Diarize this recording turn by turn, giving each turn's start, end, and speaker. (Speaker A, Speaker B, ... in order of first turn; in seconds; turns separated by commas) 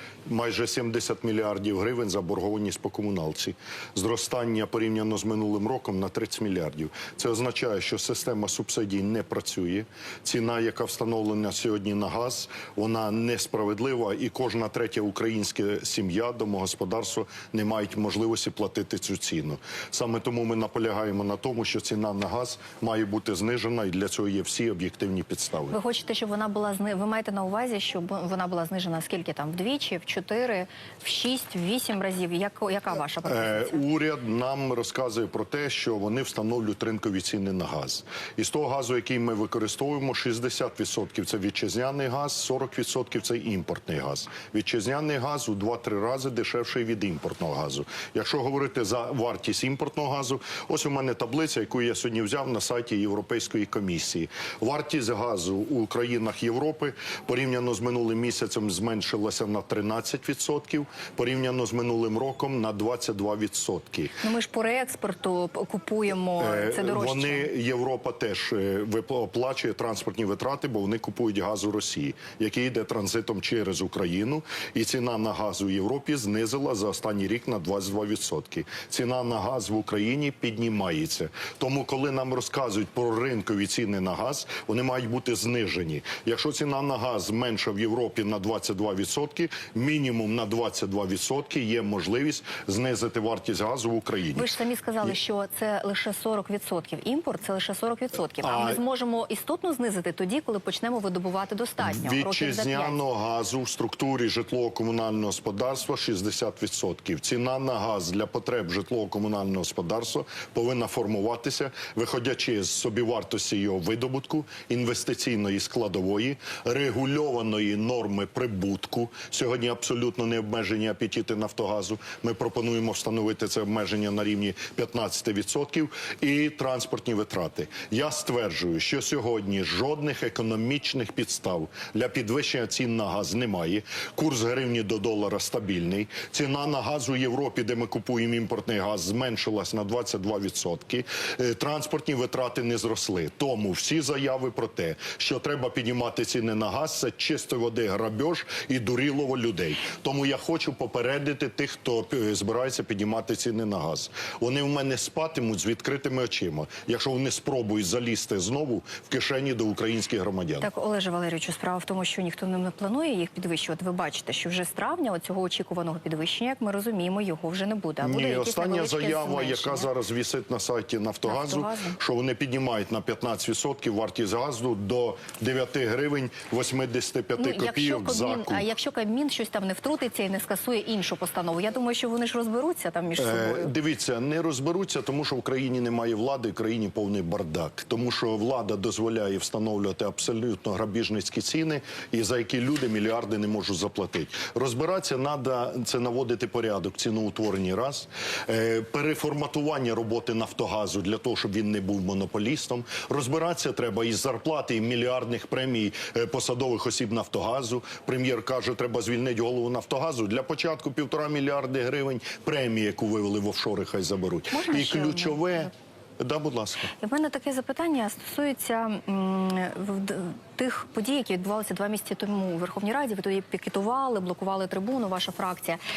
Speaker A: 0.3-25.8, Speaker B: 25.7-33.8, Speaker A: 33.2-64.2, Speaker B: 64.2-67.5, Speaker A: 66.4-95.1, Speaker B: 94.3-103.0, Speaker A: 98.4-98.8, Speaker A: 101.8-160.7, Speaker B: 160.6-169.9, Speaker A: 168.0-178.7, Speaker B: 171.2-172.0, Speaker B: 177.4-183.7, Speaker A: 183.2-216.9, Speaker B: 214.5-215.7, Speaker B: 217.0-225.8